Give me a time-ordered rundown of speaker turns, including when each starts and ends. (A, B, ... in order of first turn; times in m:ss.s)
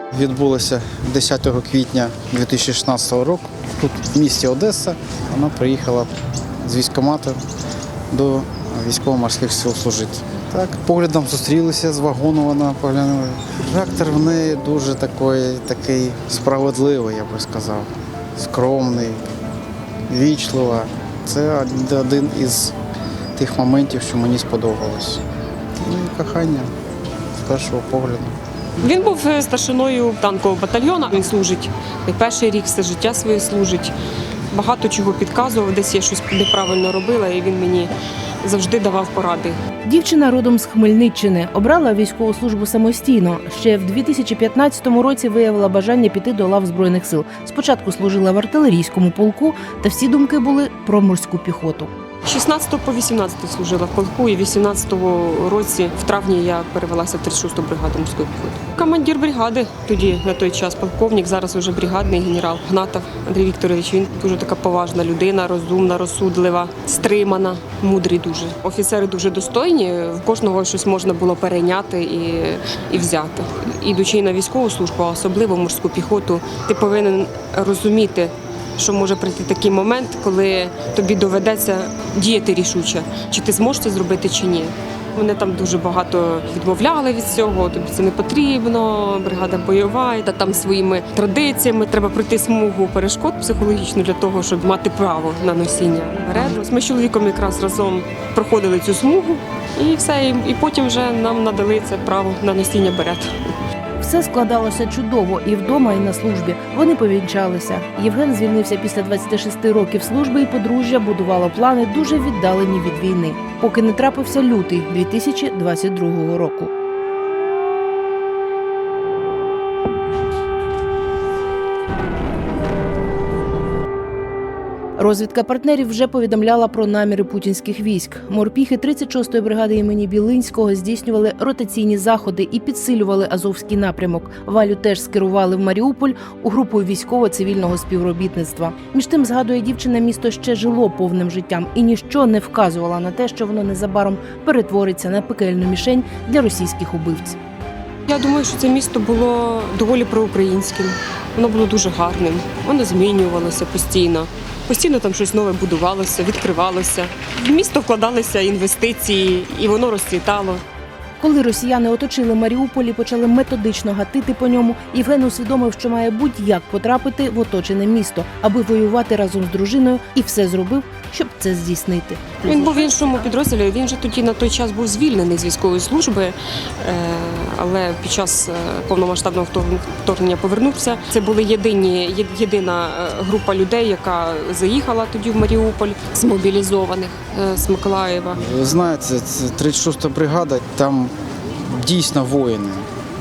0:00.1-0:06.1 A
0:06.6-0:07.4 A
0:08.1-0:19.2 A
0:20.1-0:22.8 A
0:23.4-0:25.2 A
0:25.8-0:26.7 A
0:27.4-0:28.4 A
0:28.8-0:34.0 B
0:34.5-0:39.6 B
0:39.9-0:51.9 C
0:52.2-1:43.3 B
1:44.0-1:56.7 C
2:05.0-2:27.4 C
2:28.1-2:40.6 B
2:41.2-2:53.3 C
2:52.4-3:08.4 B
3:08.4-3:12.9 A